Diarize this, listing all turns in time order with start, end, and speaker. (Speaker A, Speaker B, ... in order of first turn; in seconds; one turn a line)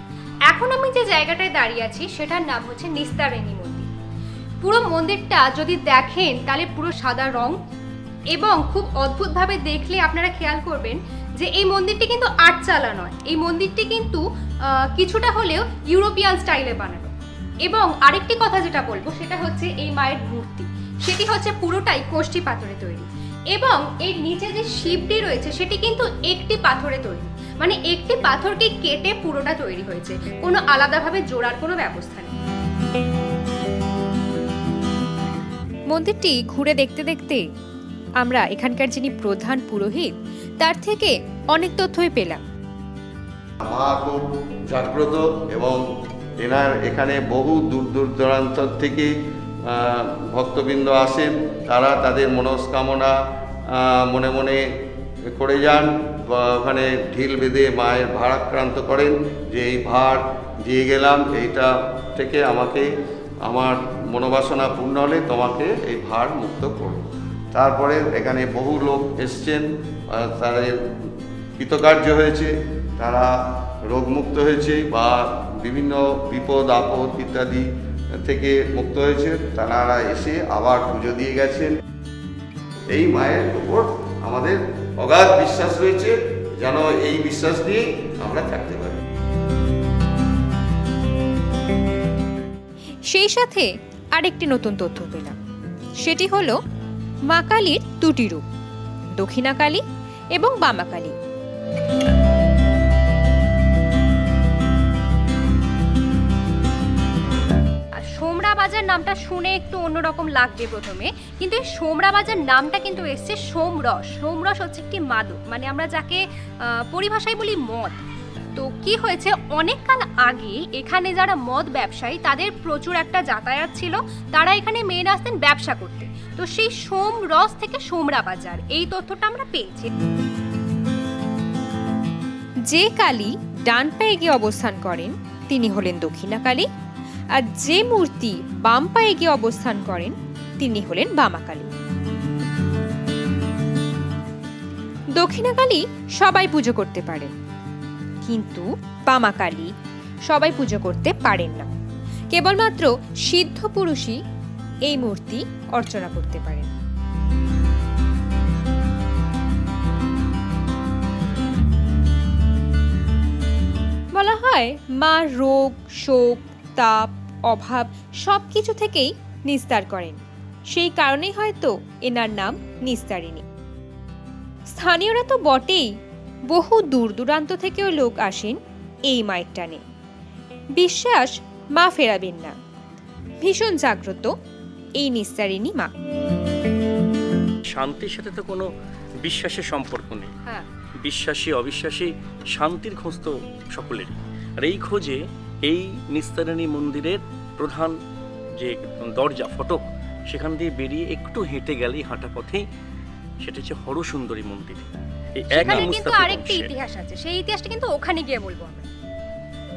Speaker A: 0.5-3.9
Speaker A: 4.6-7.6
Speaker A: 8.3-14.2
Speaker A: 14.8-32.3
Speaker B: 35.9-37.4
Speaker B: 38.2-42.4
Speaker C: 43.6-45.8
Speaker C: 46.4-49.1
Speaker C: 49.6-53.1
Speaker C: 53.7-54.7
Speaker C: 55.3-62.9
Speaker C: 63.4-70.8
Speaker C: 71.6-73.3
Speaker C: 73.9-77.7
Speaker C: 78.2-81.7
Speaker C: 82.9-89.0
Speaker B: 93.1-95.3
Speaker B: 96.0-96.6
Speaker B: 97.3-98.4
Speaker B: 99.2-99.8
Speaker B: 100.3-101.1
Speaker A: 108.0-118.0
Speaker A: 118.5-129.9
Speaker B: 132.7-136.7
Speaker B: 137.3-141.7
Speaker B: 145.2-147.3
Speaker B: 148.2-149.7
Speaker B: 150.3-151.7
Speaker B: 152.3-154.2
Speaker B: 154.9-156.7
Speaker B: 164.1-170.2
Speaker B: 170.7-173.4
Speaker B: 174.7-175.9
Speaker B: 176.5-178.6
Speaker B: 179.1-179.8
Speaker B: 180.8-182.6
Speaker B: 183.4-184.3
Speaker B: 185.0-185.9
Speaker D: 187.7-188.7
Speaker D: 189.2-190.3
Speaker D: 191.0-197.9
Speaker D: 198.6-202.6
Speaker D: 203.4-206.7
Speaker A: 205.5-208.9